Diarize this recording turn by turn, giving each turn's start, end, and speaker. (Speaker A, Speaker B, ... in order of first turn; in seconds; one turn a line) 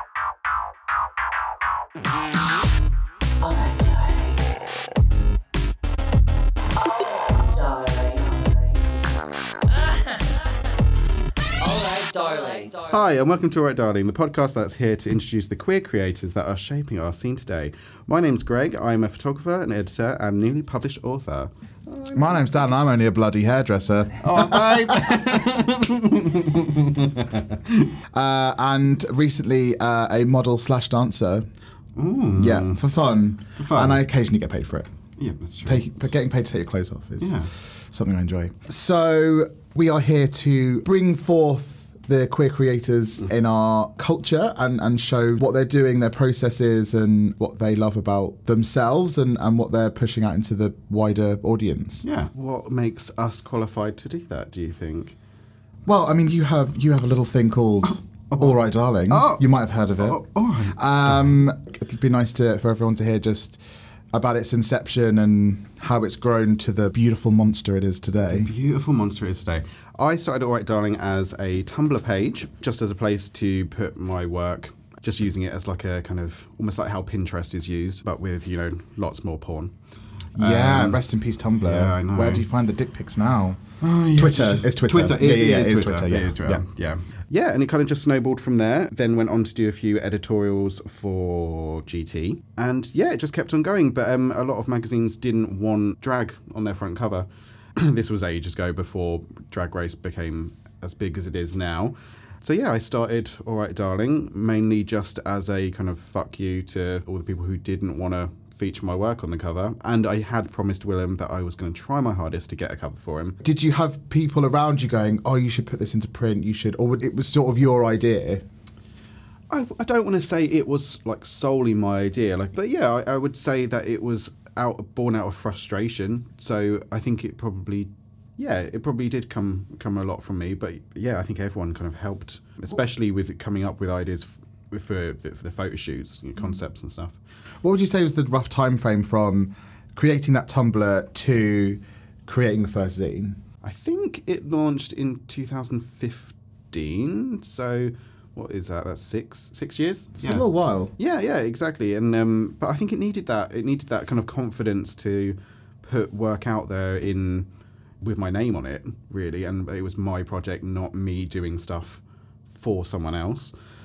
Speaker A: 3.4-4.8
Speaker A: 6.8-9.1
Speaker A: 11.6-13.0
Speaker B: 12.9-22.6
Speaker C: 22.1-25.2
Speaker B: 24.2-27.9
Speaker C: 28.1-31.5
Speaker B: 32.0-32.8
Speaker C: 32.4-34.9
Speaker B: 33.6-34.0
Speaker B: 35.2-35.9
Speaker C: 35.6-37.3
Speaker B: 37.2-37.5
Speaker C: 37.9-52.0
Speaker B: 52.0-55.1
Speaker C: 55.9-63.6
Speaker B: 58.3-58.6
Speaker B: 59.1-59.5
Speaker B: 60.0-61.4
Speaker C: 64.1-68.5
Speaker B: 68.3-79.7
Speaker B: 80.4-81.0
Speaker C: 80.4-83.6
Speaker B: 81.6-82.5
Speaker B: 83.8-113.4
Speaker C: 84.2-86.6
Speaker C: 113.4-118.4
Speaker B: 119.5-137.2
Speaker C: 137.6-143.4
Speaker B: 143.6-150.5
Speaker C: 150.2-150.9
Speaker B: 151.0-157.5
Speaker B: 158.0-163.6